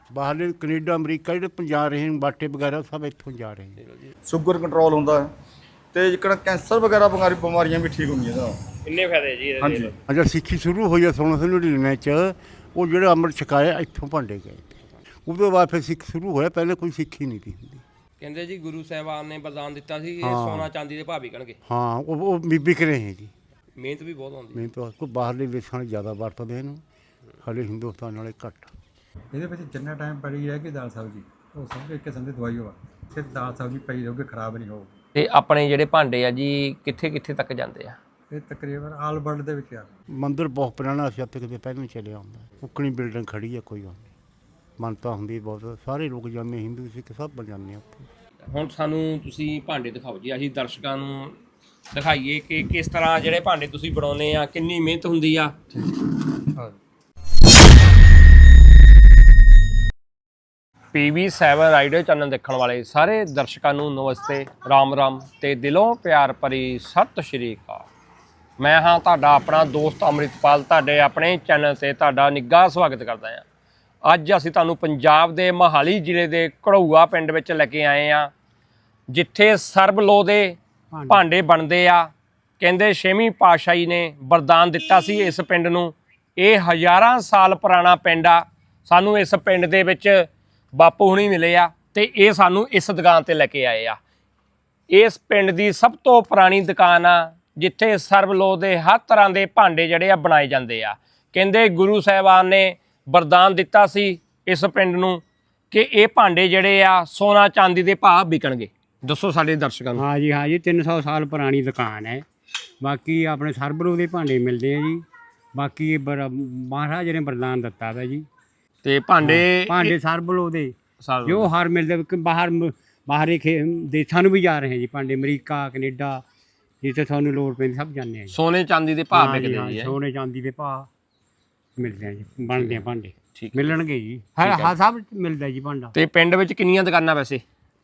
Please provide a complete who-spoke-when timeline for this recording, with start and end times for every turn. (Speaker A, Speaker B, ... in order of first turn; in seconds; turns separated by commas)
Speaker A: 0.1-3.8, Speaker B: 3.8-4.1, Speaker C: 4.3-5.3, Speaker C: 5.9-8.6, Speaker B: 8.8-9.9, Speaker C: 9.6-9.9, Speaker A: 10.1-14.7, Speaker A: 15.3-17.8, Speaker B: 18.2-21.6, Speaker A: 20.2-20.7, Speaker A: 21.6-23.3, Speaker B: 23.8-24.6, Speaker A: 24.5-26.8, Speaker A: 27.4-28.7, Speaker D: 29.3-35.0, Speaker B: 35.2-38.0, Speaker D: 38.3-39.9, Speaker A: 40.2-44.1, Speaker A: 44.8-48.1, Speaker B: 48.5-51.4, Speaker B: 51.9-55.5, Speaker D: 55.7-56.8, Speaker B: 60.9-67.9, Speaker B: 68.6-73.5, Speaker B: 74.0-78.3, Speaker B: 79.1-80.6, Speaker E: 80.9-81.2, Speaker B: 81.1-94.0, Speaker B: 94.9-110.0, Speaker E: 110.0-112.2, Speaker E: 112.8-115.0, Speaker E: 115.5-118.3, Speaker B: 118.8-120.0, Speaker E: 119.3-120.8, Speaker B: 121.0-121.5, Speaker E: 121.3-126.2, Speaker E: 126.8-128.3, Speaker B: 128.3-130.0, Speaker E: 129.1-130.9, Speaker E: 131.8-135.9, Speaker B: 132.5-133.8, Speaker B: 134.4-134.8, Speaker B: 135.9-137.4